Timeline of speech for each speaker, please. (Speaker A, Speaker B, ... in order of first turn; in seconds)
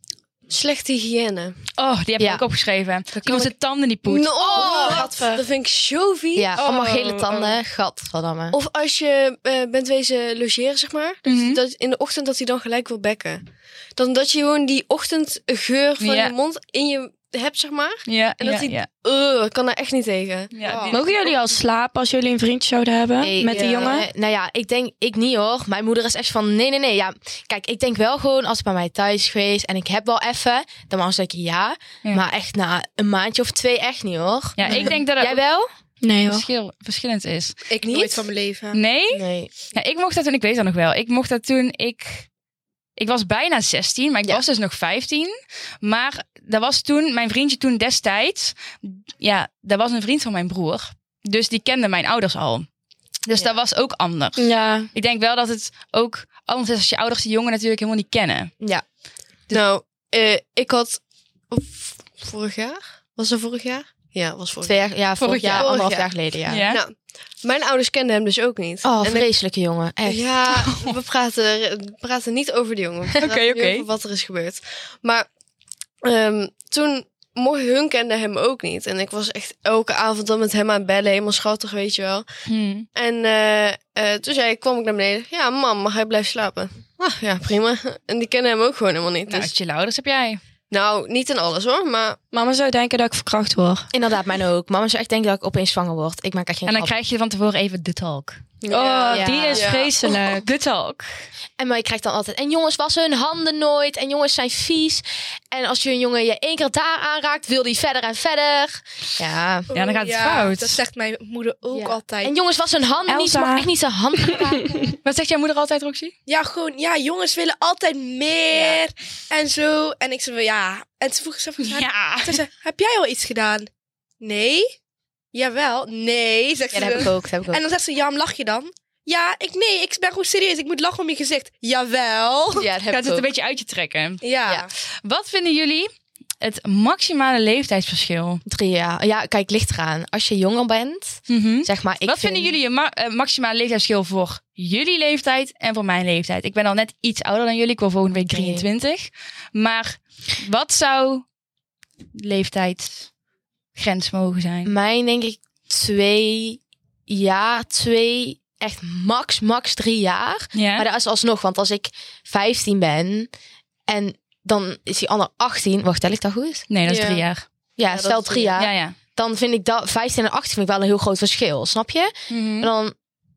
Speaker A: 0.5-1.6, 4.0-7.5, 8.5-20.5, 23.5-24.0, 59.5-64.8, 65.5-66.1, 66.6-69.3, 70.0-75.3, 76.0-82.2, 82.9-89.5, 90.7-92.2, 98.6-100.0, 166.8-167.2, 167.9-168.5
Speaker B: 1.8-4.4, 11.2-11.6, 16.0-16.3, 18.1-18.9, 20.5-21.1, 34.6-35.4, 36.2-37.6, 38.7-42.3, 43.0-52.7, 53.2-58.5, 65.2-65.7, 66.5-66.8, 73.2-73.9, 82.5-82.9, 89.3-90.4, 96.7-98.4, 100.0-101.1, 109.7-110.8, 115.0-116.1, 121.6-122.4, 132.9-134.2, 135.0-135.9, 136.4-138.4, 141.3-151.2, 152.1-153.1, 153.7-154.7, 160.5-160.9, 166.7-167.4, 168.6-168.9, 172.3-172.7
Speaker C: 2.2-2.4, 4.6-5.0, 6.3-8.6, 23.2-35.7, 39.1-39.5, 64.6-66.7, 68.8-70.6, 93.9-96.9, 99.1-99.7, 101.6-109.7, 111.7-114.8, 118.5-118.8, 126.7-127.6, 132.5-133.3, 138.4-142.5, 148.3-148.7, 154.6-163.3, 163.9-166.7, 167.8-172.9
Speaker D: 4.6-5.4, 20.9-24.1, 36.0-36.4, 54.4-54.9, 92.3-93.9, 98.7-100.5, 113.1-113.7, 114.3-114.8
Speaker E: 20.6-21.0, 37.7-38.8, 109.7-112.3, 116.3-123.7, 124.2-124.7, 125.3-132.7, 134.2-134.7